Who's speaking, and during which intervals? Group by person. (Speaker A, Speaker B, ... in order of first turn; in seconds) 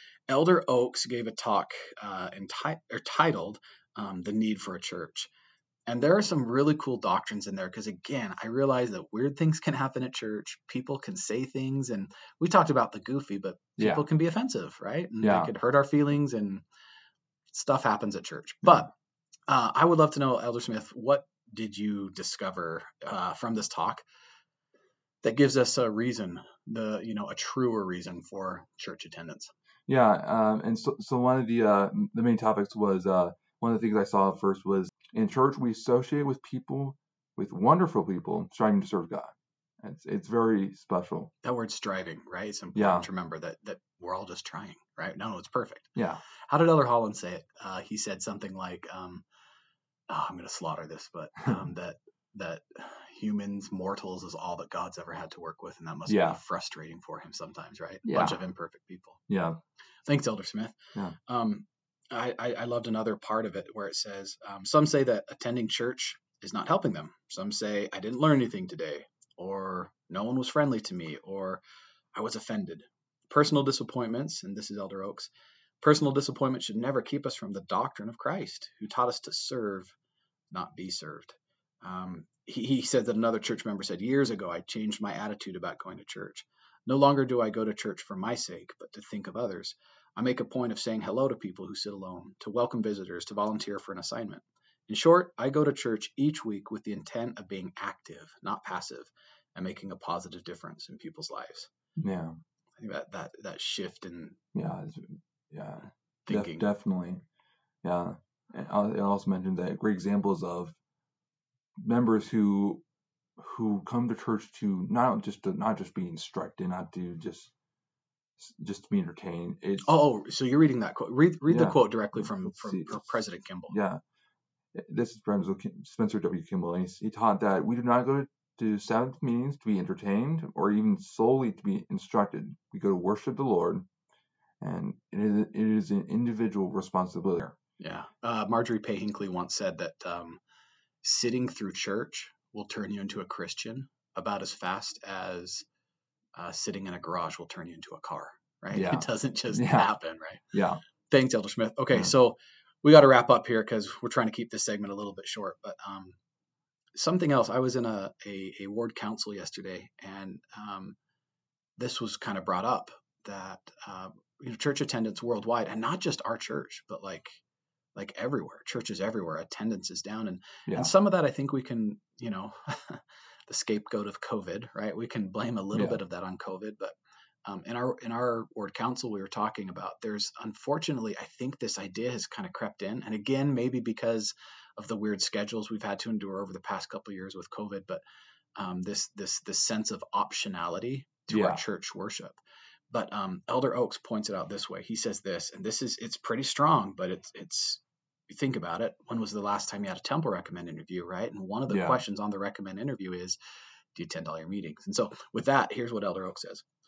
Speaker A: 0.3-5.3, 5.9-16.6, 17.5-18.9, 19.5-24.0, 25.2-29.5, 41.4-45.9, 46.5-49.2, 50.1-59.2, 60.1-71.6, 72.2-79.9, 80.5-101.7, 102.8-104.4, 106.3-106.7, 119.8-123.8, 137.8-140.4, 141.0-145.7, 146.4-150.4, 151.1-156.2, 157.0-161.0, 161.8-167.4, 167.9-176.9, 177.5-188.0, 188.6-192.4, 192.9-203.4, 203.9-206.7
Speaker B: 13.8-14.0, 15.2-15.5, 29.9-41.3, 42.8-43.1, 46.0-46.2, 56.1-56.4, 58.0-58.4, 59.3-59.6, 102.0-102.4, 104.5-107.2, 107.8-110.8, 111.8-112.8, 113.4-117.5, 118.4-119.9, 121.5-124.0, 124.7-133.9, 134.6-137.6, 148.7-149.9, 150.5-150.8, 170.7-170.9, 175.7-176.0, 191.3-191.6, 201.7-202.0